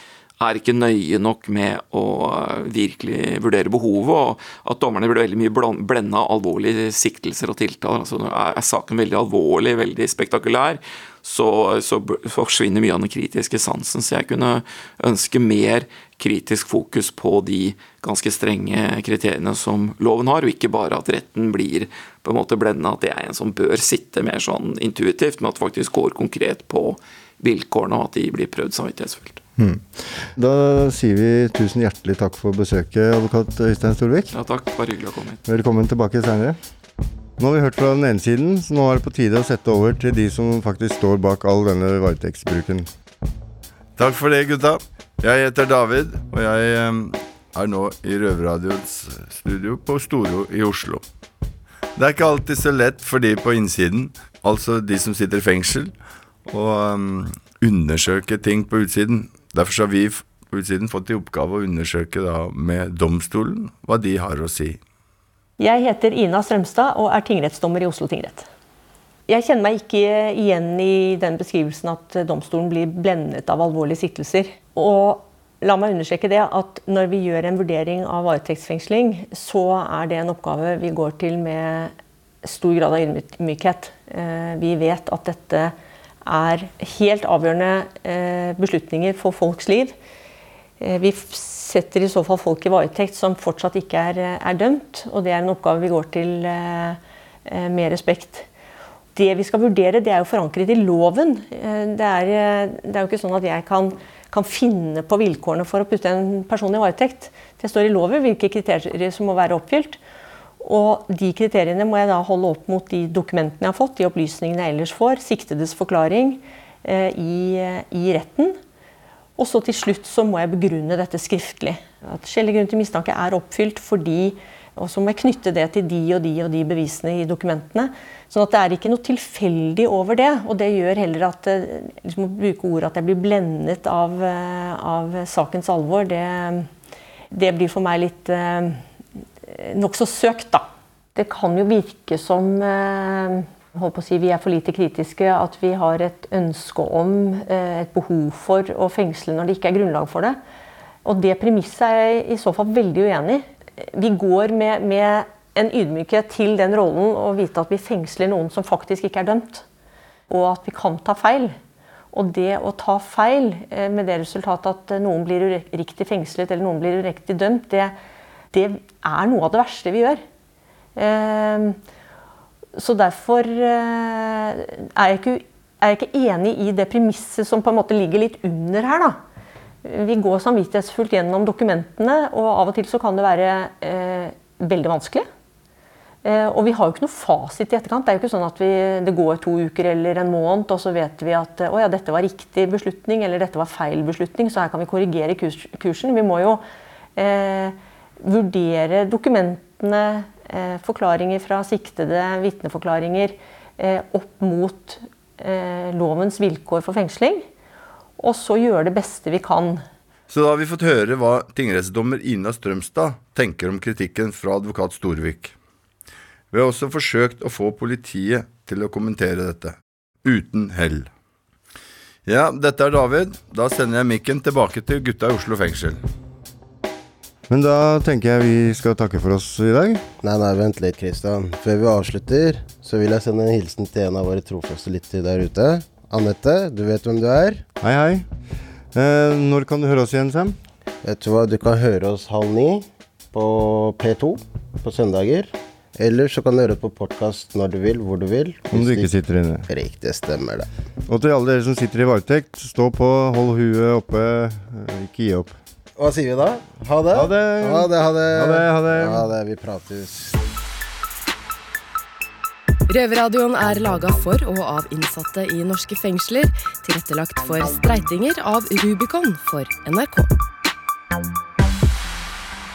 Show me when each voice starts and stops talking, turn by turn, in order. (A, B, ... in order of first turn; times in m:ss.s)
0:00.4-0:29.4 A
0:29.6-0:34.3 B
0:34.3-0:35.4 A
0:35.5-0:36.6 B
0:37.4-0:42.9 B
0:44.0-0:51.0 C
0:52.0-0:55.9 C
0:56.5-1:04.8 C
1:05.6-1:08.5 D
1:09.3-1:21.9 D
1:22.4-1:25.7 D
1:26.3-1:30.0 D
1:30.8-1:38.5 D
1:39.2-1:50.0 D
1:50.6-1:58.6 D
1:59.4-2:16.7 D
2:17.3-2:18.8 D
2:19.5-2:30.4 D
2:31.0-2:39.6 D
2:40.3-2:41.6 D
2:42.1-2:48.0 D
2:48.5-2:50.2 D
2:51.0-2:51.8 D
2:52.8-2:59.2 D
2:59.8-3:05.3 D
3:06.2-3:16.6 D
3:17.2-3:27.4 D
3:28.2-3:29.8 D
3:30.3-3:35.6 C
3:36.5-3:41.1 C
3:42.3-3:46.0 C
3:47.5-3:50.1 B
3:50.2-3:57.6 E
3:57.8-3:58.3 B
3:58.9-4:00.6 B
4:01.0-4:09.1 E
4:08.7-4:09.7 B
4:09.7-4:10.7 E
4:11.1-4:15.6 B
4:16.0-4:20.4 E
4:17.1-4:19.3 B
4:22.9-4:30.3 F